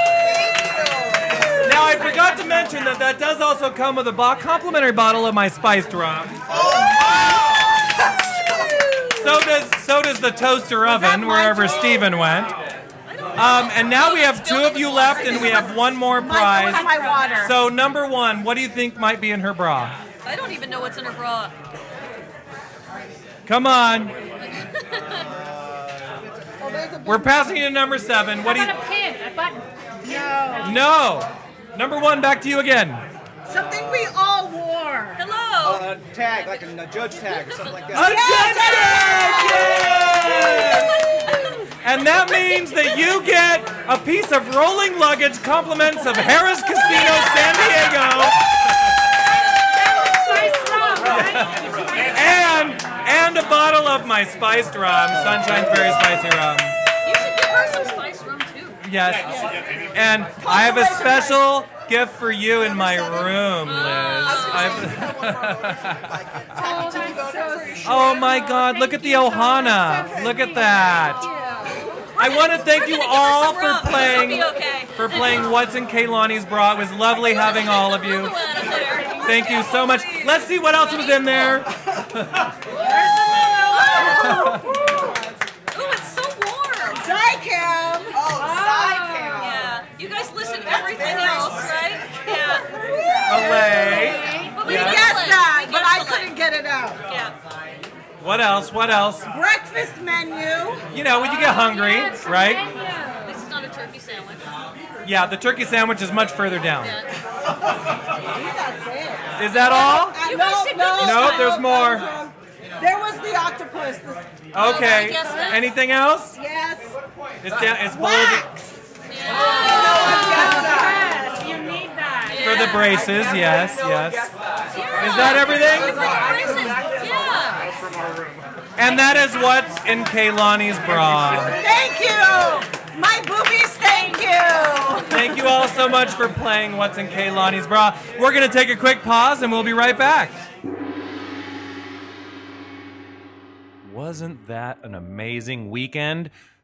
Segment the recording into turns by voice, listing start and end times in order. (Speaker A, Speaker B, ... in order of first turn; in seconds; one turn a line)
Speaker A: 0.2-1.9
Speaker B: 1.2-2.4
Speaker C: 1.6-6.5
Speaker D: 1.9-3.0
Speaker A: 6.5-8.0
Speaker B: 6.5-7.5
Speaker A: 8.5-9.0
Speaker B: 9.0-9.4
Speaker C: 9.2-12.6
Speaker B: 10.8-12.3
Speaker E: 13.1-15.8
Speaker C: 13.3-19.9
Speaker B: 15.0-17.6
Speaker D: 16.7-17.5
Speaker E: 20.2-21.5
Speaker C: 23.5-24.1
Speaker E: 24.4-25.3
Speaker A: 25.0-27.0
Speaker B: 26.6-27.6
Speaker C: 27.0-28.7
Speaker D: 28.4-30.8
Speaker B: 30.0-30.8
Speaker C: 30.6-33.0
Speaker B: 33.5-35.2
Speaker A: 33.5-34.1
Speaker E: 35.2-36.0
Speaker A: 35.6-38.2
Speaker E: 37.2-37.8
Speaker C: 37.9-41.0
Speaker B: 37.9-41.3
Speaker E: 38.4-41.7
Speaker C: 41.8-49.0
Speaker E: 42.3-43.0
Speaker E: 46.8-48.0
Speaker D: 49.2-52.6
Speaker C: 51.0-56.8
Speaker E: 57.0-58.9
Speaker C: 58.8-66.2
Speaker B: 59.3-59.5
Speaker A: 59.3-59.9
Speaker A: 60.4-61.3
Speaker B: 60.4-61.4
Speaker A: 62.6-68.4
Speaker E: 63.6-64.9
Speaker D: 66.6-72.1
Speaker B: 66.7-68.0
Speaker C: 67.8-71.3
Speaker E: 72.1-75.6
Speaker C: 72.2-78.3
Speaker E: 77.2-81.6
Speaker D: 78.3-79.7
Speaker C: 79.2-82.5
Speaker D: 82.7-84.3
Speaker B: 82.8-85.3
Speaker E: 83.7-84.6
Speaker C: 84.2-84.6
Speaker E: 85.7-87.1
Speaker B: 86.9-88.2
Speaker A: 88.1-89.6
Speaker D: 88.2-89.5
Speaker E: 89.4-92.7
Speaker A: 90.7-92.6
Speaker B: 90.7-91.7
Speaker B: 92.2-97.0
Speaker D: 93.3-94.7
Speaker C: 93.3-95.2
Speaker E: 94.5-96.3
Speaker E: 97.1-97.3
Speaker C: 98.2-99.3
Speaker B: 99.3-100.8
Speaker C: 100.9-102.7
Speaker D: 101.1-103.4
Speaker E: 103.2-104.5
Speaker C: 105.0-106.9
Speaker E: 106.8-107.0
Speaker B: 108.3-114.3
Speaker C: 109.4-110.2
Speaker E: 109.7-111.6
Speaker C: 111.0-112.0
Speaker C: 114.5-116.4
Speaker E: 114.5-115.6
Speaker D: 114.8-115.5
Speaker B: 116.3-117.0
Speaker C: 117.4-118.5
Speaker B: 117.9-118.7
Speaker E: 119.1-120.7
Speaker B: 119.3-121.4
Speaker D: 119.3-123.5
Speaker E: 122.2-123.2
Speaker C: 122.4-124.4
Speaker E: 124.7-127.7
Speaker D: 124.7-127.6
Speaker C: 125.0-126.1
Speaker A: 126.1-127.1
Speaker C: 128.8-131.6
Speaker B: 131.4-135.2
Speaker E: 133.8-135.0
Speaker C: 135.1-140.4
Speaker C: 143.8-146.3